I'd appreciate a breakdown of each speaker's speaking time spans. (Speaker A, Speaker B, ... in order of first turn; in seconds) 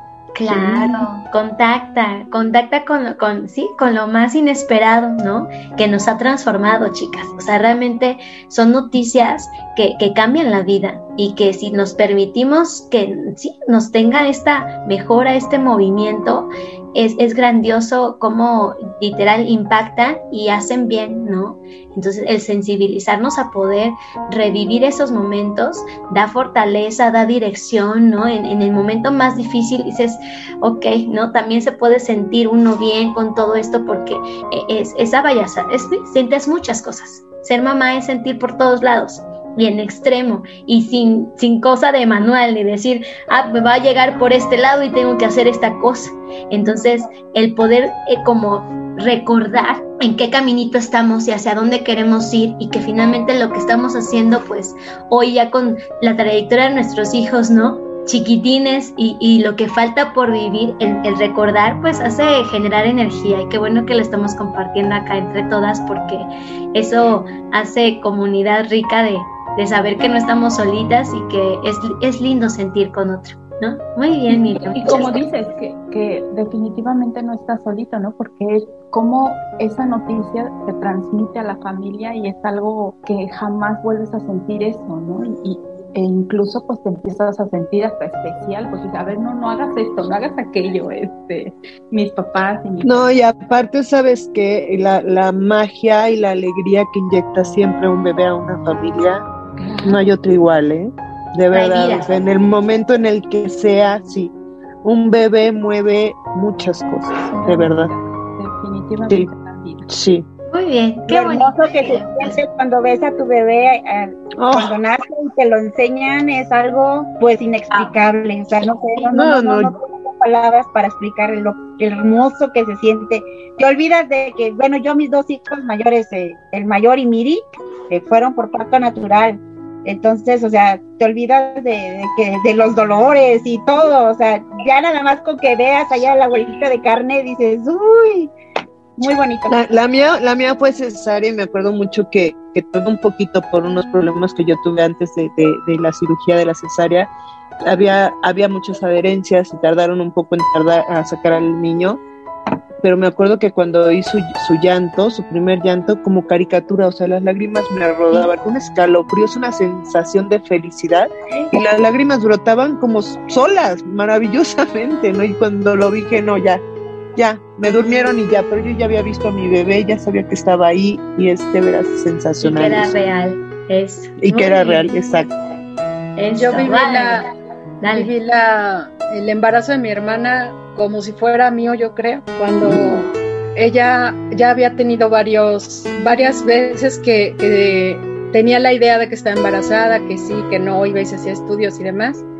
Speaker A: 0.3-75.3, 101.5-102.1, 110.5-112.4, 172.4-174.9, 176.2-177.2, 177.8-178.1
Speaker B: 0.5-1.1, 74.3-93.1, 99.6-100.0, 107.3-109.8
Speaker C: 92.8-99.2, 99.8-107.9, 109.9-110.2, 114.4-114.7, 119.1-119.7, 139.5-147.1, 147.6-152.0, 152.8-166.6, 167.2-172.9, 174.2-175.3
Speaker D: 111.1-138.3, 139.0-139.6
Speaker E: 176.4-177.3, 177.9-192.2